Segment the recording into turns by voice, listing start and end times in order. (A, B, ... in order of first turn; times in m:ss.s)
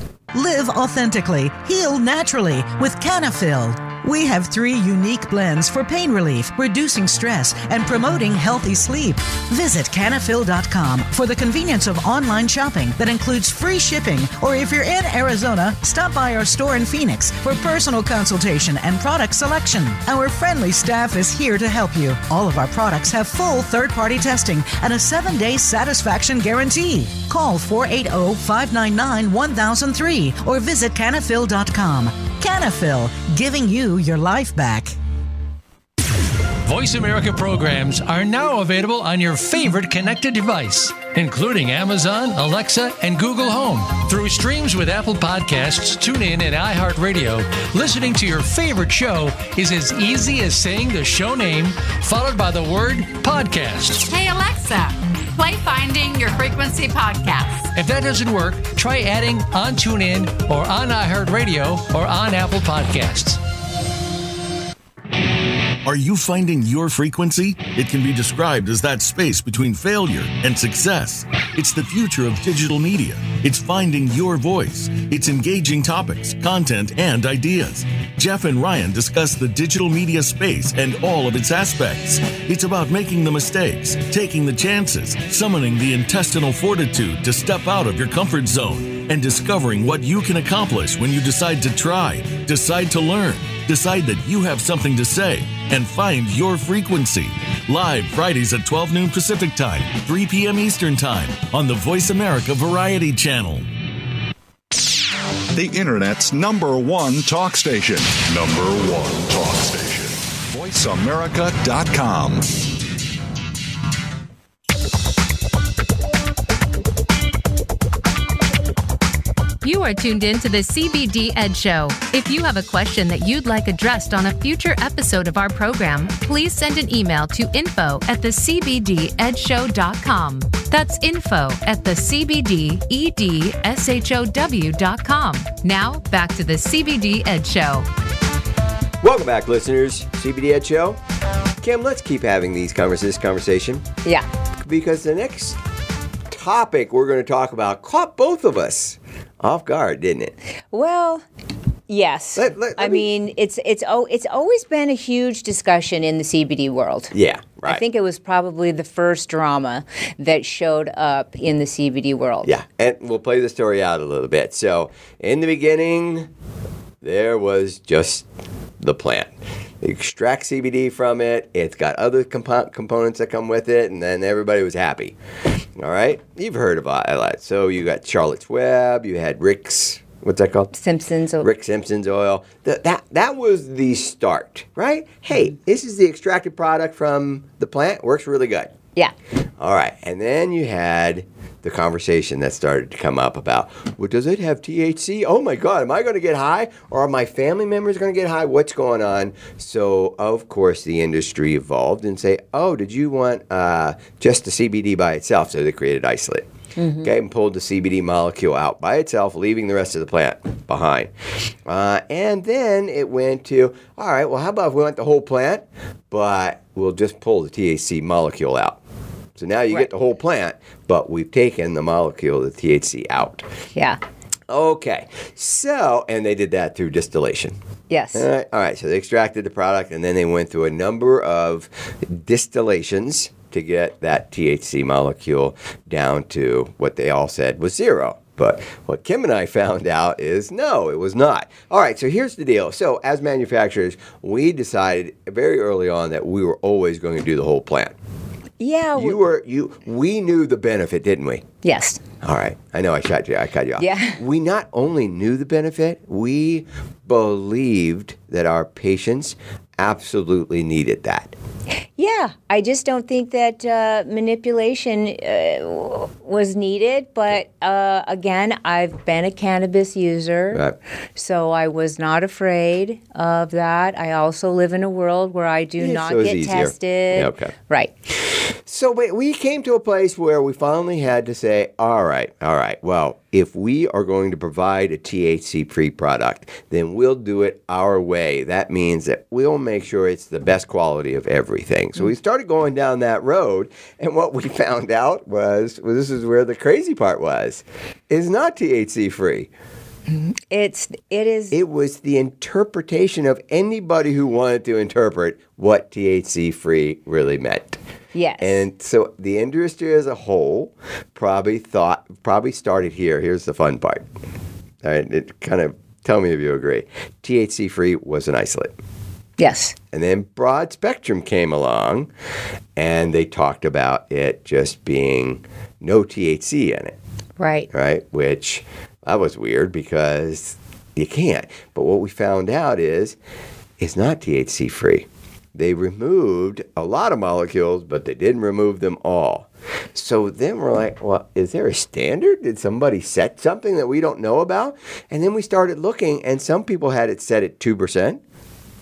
0:00.3-0:34.9 A
0:36.6-0:54.1 B
0:54.0-0:57.7 C
0:57.7-1:03.4 B
1:05.8-1:43.7 D
1:45.5-1:52.5 E
1:59.6-2:17.9 F
2:19.0-2:21.0 G
2:21.6-2:23.8 G
2:24.6-2:25.6 G
2:26.3-2:30.3 G
2:30.7-2:31.2 H
2:31.9-2:37.1 H
2:32.4-2:33.1 G
2:37.1-2:37.8 G
2:37.6-2:42.5 H
2:42.4-2:46.3 G
2:47.0-2:48.2 G
2:48.8-2:55.2 G
2:55.7-3:00.7 G
3:00.7-3:01.5 H
3:01.4-3:08.7 G
3:09.6-3:26.5 G
3:26.8-3:27.1 H
3:27.0-3:31.1 G
3:31.6-3:38.8 G
3:39.4-3:43.4 G
3:43.7-3:44.0 H
3:44.5-3:47.6 G
3:47.9-3:48.3 H
3:48.1-4:07.9 G
4:08.6-4:09.2 H
4:09.0-4:11.4 G
4:11.6-4:12.0 H
4:12.2-4:21.3 G
4:13.8-4:14.2 H
4:22.0-4:30.6 H
4:31.2-4:37.9 H
4:35.8-4:37.5 G
4:38.3-4:59.5 G
5:00.1-5:01.6 H
5:01.5-5:07.8 G
5:08.1-5:08.6 H
5:08.4-5:14.0 G
5:14.8-5:18.7 G
5:19.4-5:19.8 H
5:19.9-5:22.1 G
5:22.8-5:27.0 G
5:27.4-5:27.7 H
5:27.7-5:33.2 G
5:33.8-5:48.2 G